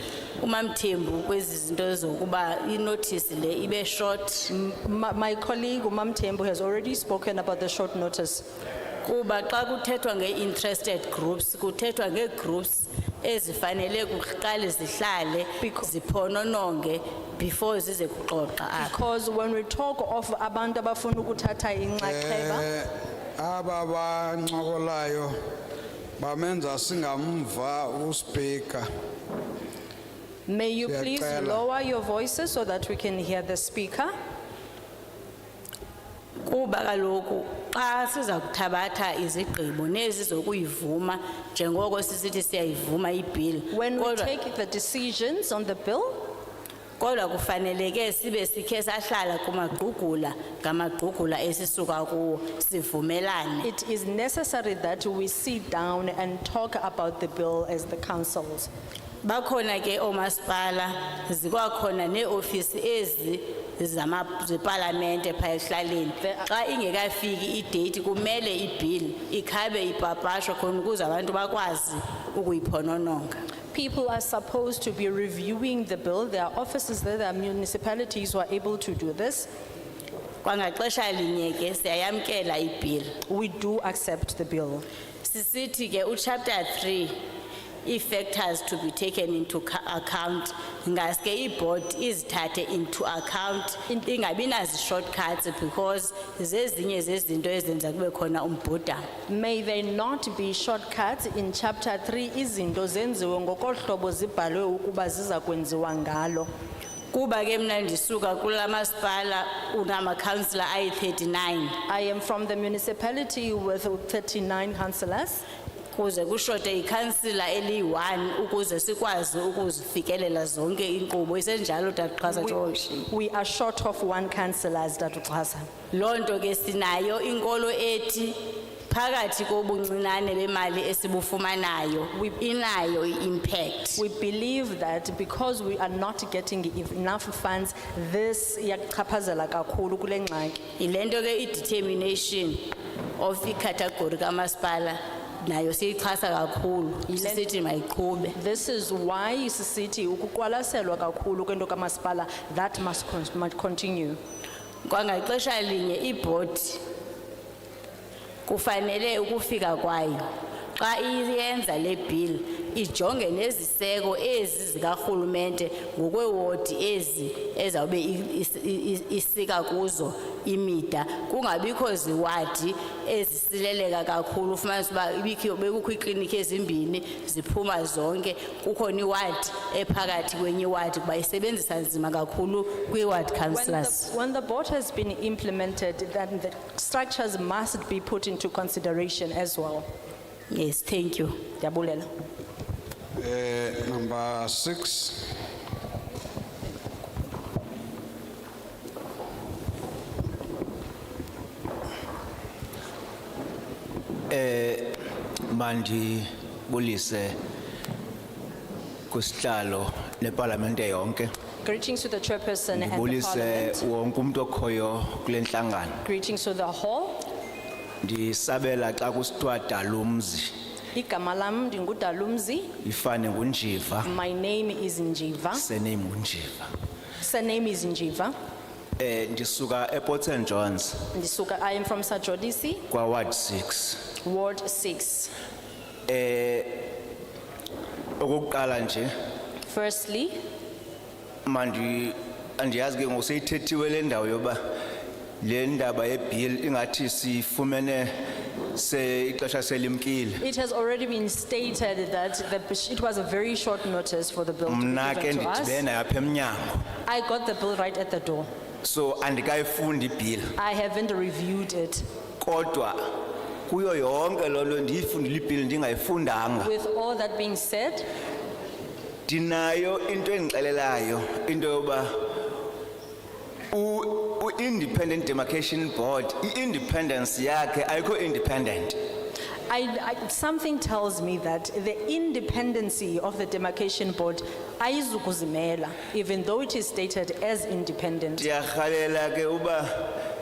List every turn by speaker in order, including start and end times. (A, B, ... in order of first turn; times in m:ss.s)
0:00.4-0:04.5 A
0:04.5-0:08.5 B
0:09.0-0:19.0 A
0:15.6-0:15.9 B
0:18.8-0:22.6 B
0:22.0-0:25.3 C
0:26.2-0:28.8 C
0:30.5-0:34.1 B
0:30.9-0:31.6 C
0:36.5-0:44.3 A
0:43.7-0:46.2 B
0:47.0-0:53.7 A
0:53.6-0:58.7 B
0:59.2-1:13.4 A
1:13.7-1:19.5 B
1:20.4-1:23.2 A
1:23.3-1:24.8 B
1:25.2-1:27.2 A
1:27.8-1:39.1 A
1:39.3-1:46.5 B
1:47.1-1:51.8 A
1:51.9-1:55.4 B
1:56.0-2:03.1 A
2:03.1-2:05.7 B
2:05.9-2:14.0 A
2:14.0-2:20.6 B
2:20.8-2:28.4 A
2:27.1-2:27.5 B
2:28.4-2:34.2 B
2:34.8-2:36.8 A
2:38.5-2:40.2 A
2:40.8-3:04.1 A
3:03.5-3:09.8 B
3:10.5-3:11.4 A
3:11.6-3:12.1 B
3:13.2-3:15.3 C
3:24.3-3:25.0 D
3:25.5-3:27.4 D
3:29.1-3:31.3 D
3:31.6-3:33.8 B
3:32.7-3:36.0 D
3:36.0-3:37.2 B
3:38.0-3:40.5 D
3:40.9-3:42.7 B
3:42.8-3:44.1 D
3:44.0-3:45.7 B
3:45.6-3:46.7 D
3:47.2-3:48.3 B
3:49.0-3:51.1 D
3:51.1-3:52.8 B
3:52.9-3:54.1 D
3:54.2-3:55.3 B
3:56.1-3:56.9 D
3:58.2-3:59.1 D
3:59.7-4:00.4 B
4:01.4-4:04.6 D
4:05.4-4:08.1 D
4:08.8-4:10.5 D
4:10.4-4:15.8 B
4:14.7-4:16.9 D
4:17.0-4:18.5 B
4:18.8-4:20.5 D
4:20.6-4:22.0 B
4:22.4-4:23.2 D
4:23.7-4:26.7 D
4:26.6-4:28.1 B
4:29.3-4:32.4 D
4:33.7-4:39.0 D
4:39.7-4:48.5 B
4:48.4-4:50.2 D